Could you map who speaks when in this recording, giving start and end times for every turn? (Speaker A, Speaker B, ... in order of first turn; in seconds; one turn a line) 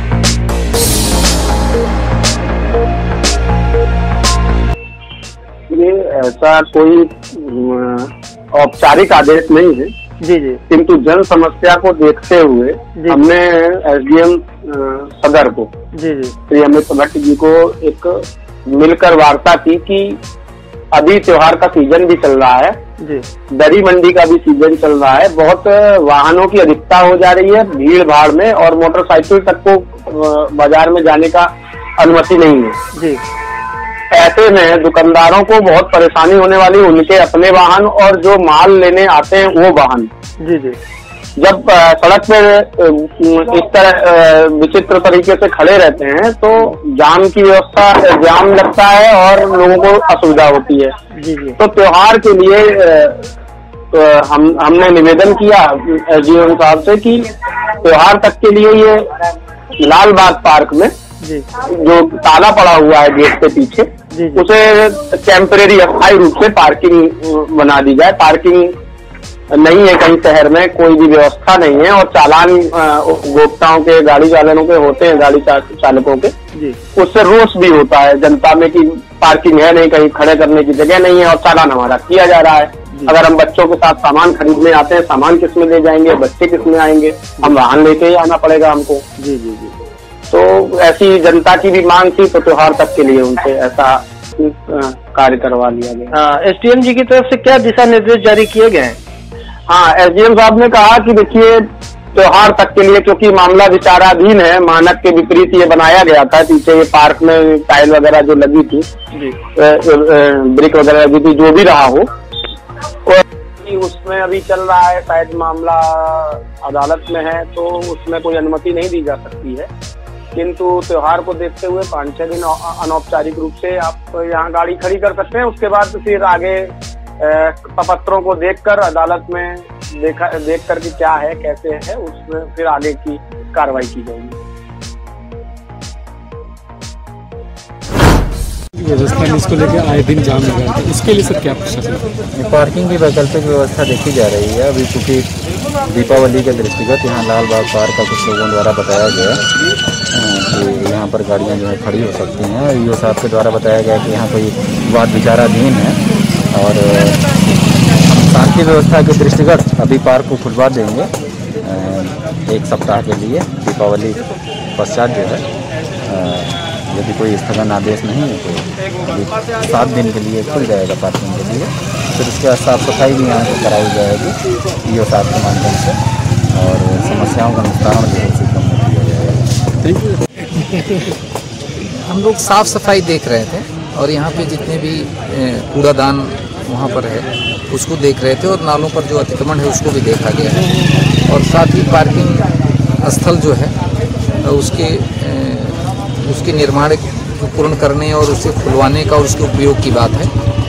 Speaker A: 5.7-9.9
Speaker B: 10.2-10.6
Speaker A: 10.7-15.7
Speaker B: 12.9-13.2
Speaker B: 15.9-16.4
Speaker A: 16.5-20.2
Speaker A: 20.9-22.8
Speaker B: 23.0-23.2
Speaker A: 23.5-32.8
Speaker B: 32.9-33.2
Speaker A: 34.1-40.1
Speaker B: 40.4-40.8
Speaker A: 41.4-50.9
Speaker B: 51.1-51.6
Speaker A: 51.6-53.2
Speaker A: 53.9-59.1
Speaker A: 59.8-60.9
Speaker A: 61.5-68.7
Speaker B: 64.1-64.4
Speaker A: 69.5-76.3
Speaker A: 76.9-89.0
Speaker B: 89.2-89.7
Speaker A: 90.3-96.1
Speaker B: 96.1-99.0
Speaker A: 99.7-108.9
Speaker A: 109.4-112.1
Speaker A: 113.1-119.7
Speaker A: 120.3-134.4
Speaker C: 138.8-142.1
Speaker D: 142.3-145.3
Speaker D: 145.8-149.4
Speaker D: 150.1-156.0
Speaker D: 156.5-157.2
Speaker D: 158.0-161.1
Speaker D: 161.6-164.2
Speaker D: 164.7-165.4
Speaker D: 166.1-176.0
Speaker D: 176.5-179.5
Speaker C: 179.8-180.2
Speaker E: 181.8-190.6
Speaker E: 191.3-192.5
Speaker E: 193.0-193.7
Speaker E: 194.4-200.3